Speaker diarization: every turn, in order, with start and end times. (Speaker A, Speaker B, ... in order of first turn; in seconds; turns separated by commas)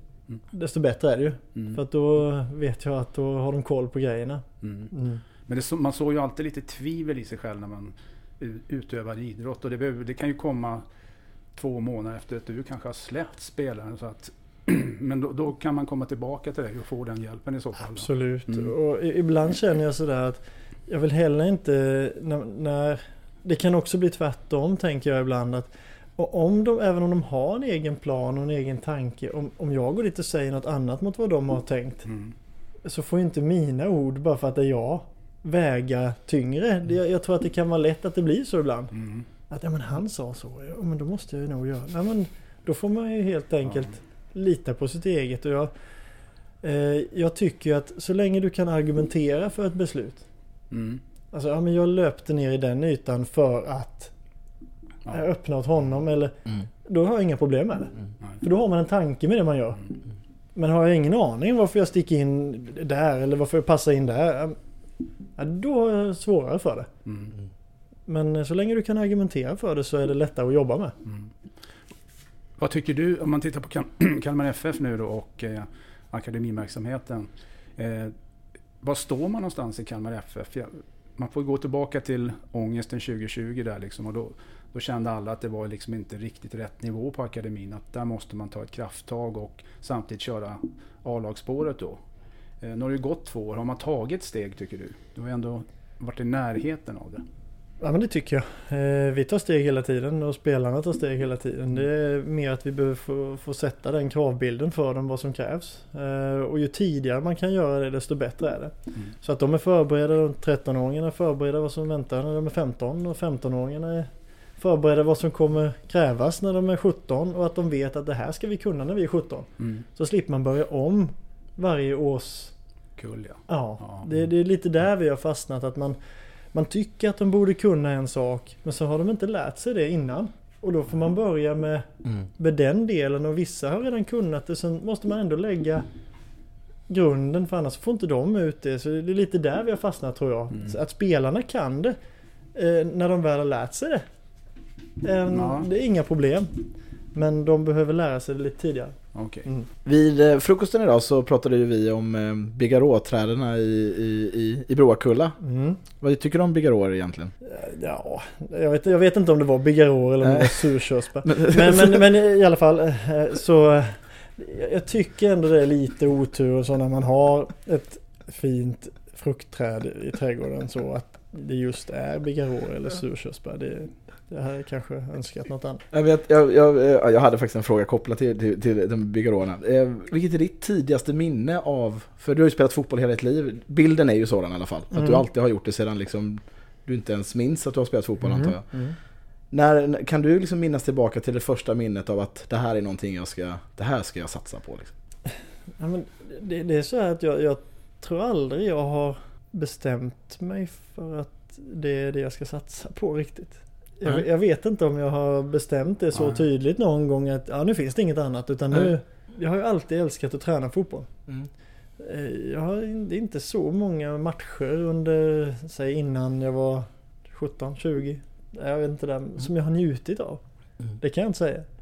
Speaker A: 0.5-5.2, Speaker B: 4.6-4.9, Speaker B: 5.5-10.8, Speaker B: 11.6-18.7, Speaker A: 17.9-32.1, Speaker B: 32.1-32.3, Speaker A: 32.9-39.0, Speaker B: 38.9-39.3, Speaker A: 39.5-45.7, Speaker A: 46.6-50.2, Speaker B: 50.7-51.0, Speaker A: 51.3-54.1, Speaker A: 55.1-59.9, Speaker A: 60.5-64.6, Speaker A: 65.4-66.9, Speaker B: 67.1-67.3, Speaker A: 68.1-71.0, Speaker B: 72.6-78.1, Speaker B: 78.8-92.0, Speaker B: 92.6-97.2, Speaker A: 97.8-122.5, Speaker B: 119.6-119.8, Speaker B: 123.0-124.1, Speaker A: 123.5-126.0, Speaker A: 126.5-135.9, Speaker A: 136.9-142.0, Speaker B: 140.5-140.8, Speaker A: 142.5-144.1, Speaker A: 145.0-149.7, Speaker B: 145.3-145.7, Speaker B: 149.1-149.5, Speaker C: 149.8-155.4, Speaker A: 155.4-155.8, Speaker C: 156.0-157.3, Speaker A: 157.4-175.8, Speaker C: 160.2-160.6, Speaker C: 161.2-162.0, Speaker C: 175.9-188.7, Speaker A: 184.9-185.2, Speaker A: 188.3-189.0, Speaker C: 189.5-194.9, Speaker A: 195.8-211.1, Speaker B: 206.2-206.4, Speaker A: 212.0-220.4, Speaker A: 221.0-221.7